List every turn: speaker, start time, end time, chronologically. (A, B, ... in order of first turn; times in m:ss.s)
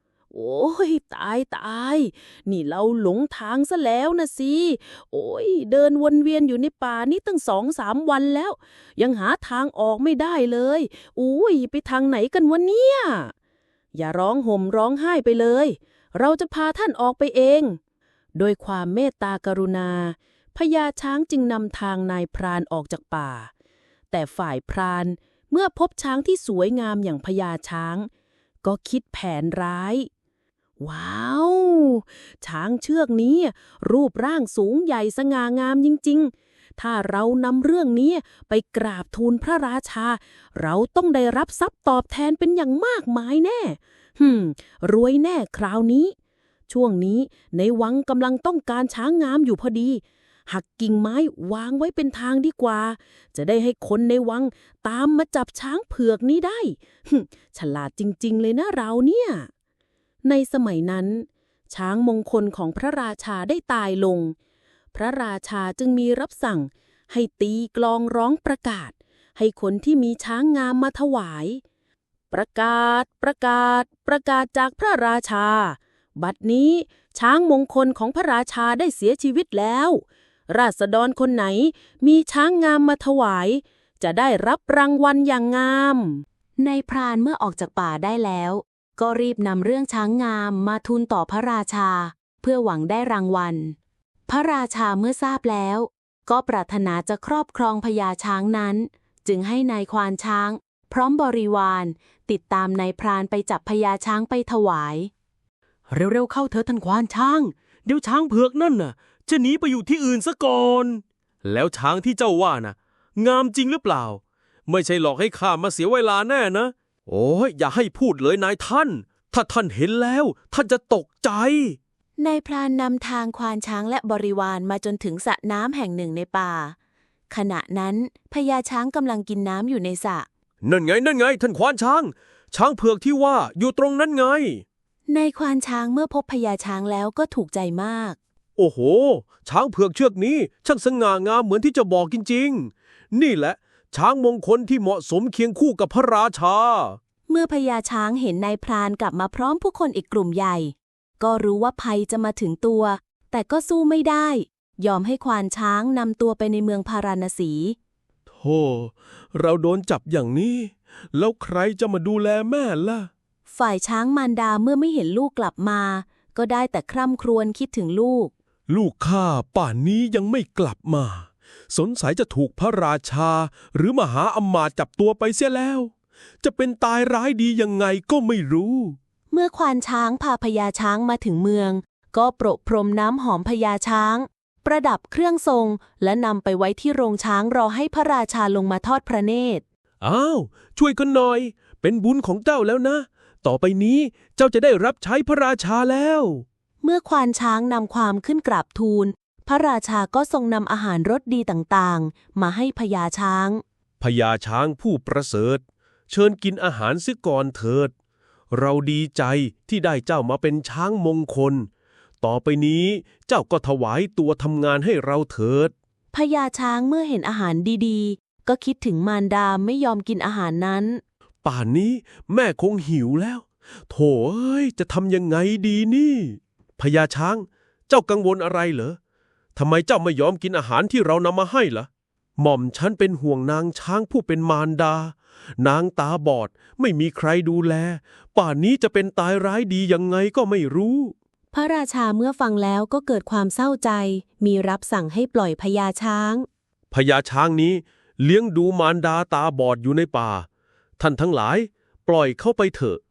0:00.3-0:13.3 A
0:13.9-0:17.8 A
0:18.4-0:23.5 A
0:24.1-0:28.1 A
0:28.6-0:30.1 A
0:30.8-0:46.2 A
0:46.7-0:59.5 A
1:00.2-1:04.4 A
1:04.9-1:11.6 A
1:12.3-1:26.2 A
1:26.6-1:33.8 B
1:34.3-1:45.1 B
1:45.9-2:01.8 C
2:02.2-2:06.8 B
2:07.3-2:10.3 B
2:10.6-2:14.6 C
2:15.1-2:18.2 B
2:18.6-2:27.0 C
2:27.3-2:37.8 B
2:38.4-2:43.1 C
2:43.5-2:48.3 B
2:48.7-2:59.0 C
2:59.3-3:09.6 B
3:10.0-3:16.4 C
3:16.8-3:23.6 B
3:24.0-3:27.9 C
3:28.5-3:31.7 C
3:32.2-3:35.7 C
3:36.1-3:41.0 B
3:41.4-3:49.0 C
3:49.6-4:01.2 C
4:01.5-4:06.5 B
4:06.9-4:10.5 C
4:11.0-4:13.0 C